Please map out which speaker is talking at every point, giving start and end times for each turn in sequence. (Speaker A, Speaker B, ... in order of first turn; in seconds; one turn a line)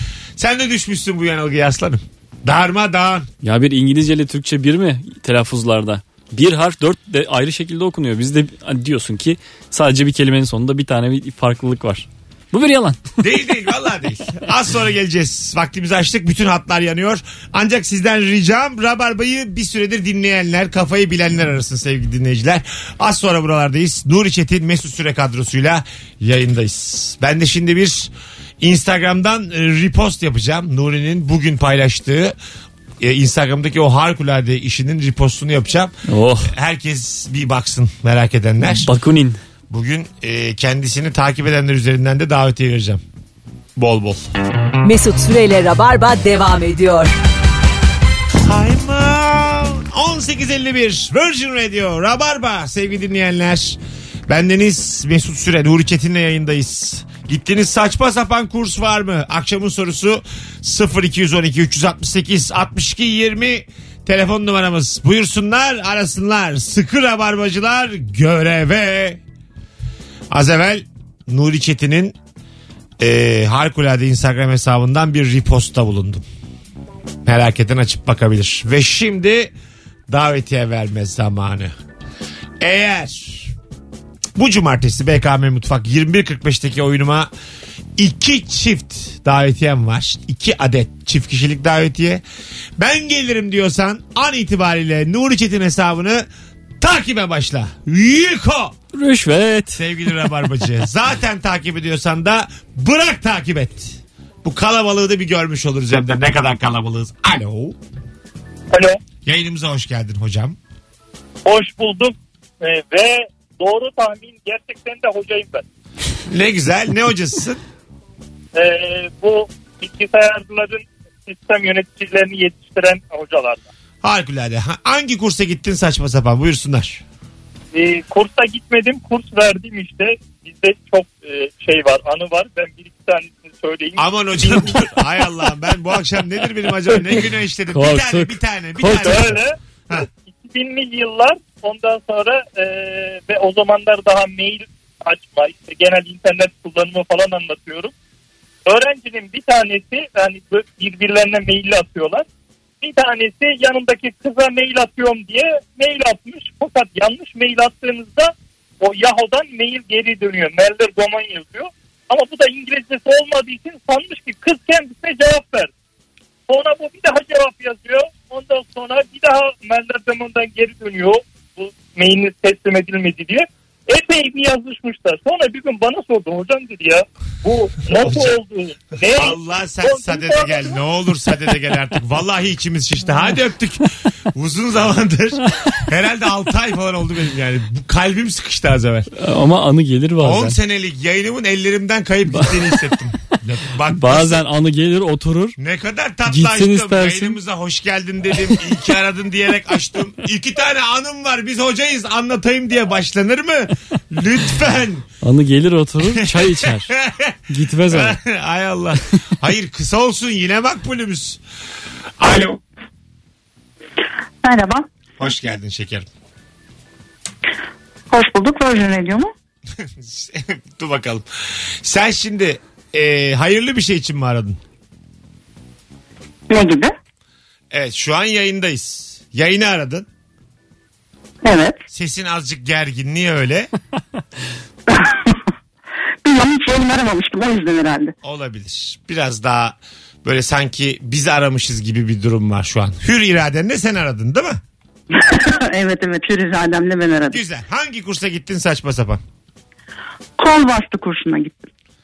Speaker A: 0.4-3.3
Speaker B: 3.4-13.2
Speaker A: 13.2-32.3
Speaker A: 33.0-35.9
Speaker B: 36.1-36.5
Speaker A: 36.4-38.9
Speaker B: 38.6-39.4
Speaker A: 39.7-43.0
Speaker A: 43.8-44.2
Speaker C: 44.8-47.1
Speaker A: 48.5-53.8
Speaker A: 54.3-69.2
Speaker A: 70.3-72.1
Speaker A: 73.0-76.2
Speaker A: 77.2-79.5
Speaker A: 80.1-81.7
Speaker A: 82.6-83.5
Speaker A: 84.3-87.3
Speaker A: 88.0-92.2
Speaker A: 92.8-96.2
Speaker A: 96.8-98.7
Speaker B: 98.9-99.8
Speaker A: 99.8-107.7
Speaker D: 108.7-109.0
Speaker A: 109.2-110.6
Speaker D: 111.4-115.6
Speaker A: 116.3-117.6
Speaker D: 118.5-123.7
Speaker A: 124.0-127.0
Speaker D: 127.7-134.8
Speaker A: 134.0-140.1
Speaker B: 137.7-139.4
Speaker D: 138.9-147.9
Speaker D: 148.7-152.2
Speaker D: 152.8-165.7
Speaker D: 166.5-180.8
Speaker A: 177.9-178.4
Speaker A: 179.1-189.1
Speaker B: 189.1-190.6
Speaker A: 190.2-194.4
Speaker B: 194.0-195.6
Speaker A: 195.6-205.0
Speaker B: 196.3-197.4
Speaker B: 205.2-206.9
Speaker A: 206.2-207.3
Speaker B: 207.5-208.2
Speaker A: 207.9-211.4
Speaker A: 212.2-212.6
Speaker E: 214.4-214.8
Speaker A: 215.2-216.1
Speaker E: 218.1-219.3
Speaker A: 220.0-221.2
Speaker A: 221.8-224.6
Speaker E: 226.5-226.9
Speaker A: 227.7-230.1
Speaker E: 231.4-231.8
Speaker A: 231.9-233.7
Speaker E: 234.9-235.4
Speaker E: 236.2-238.1
Speaker A: 238.2-244.6
Speaker E: 245.1-247.4
Speaker A: 247.3-249.2
Speaker E: 250.4-251.7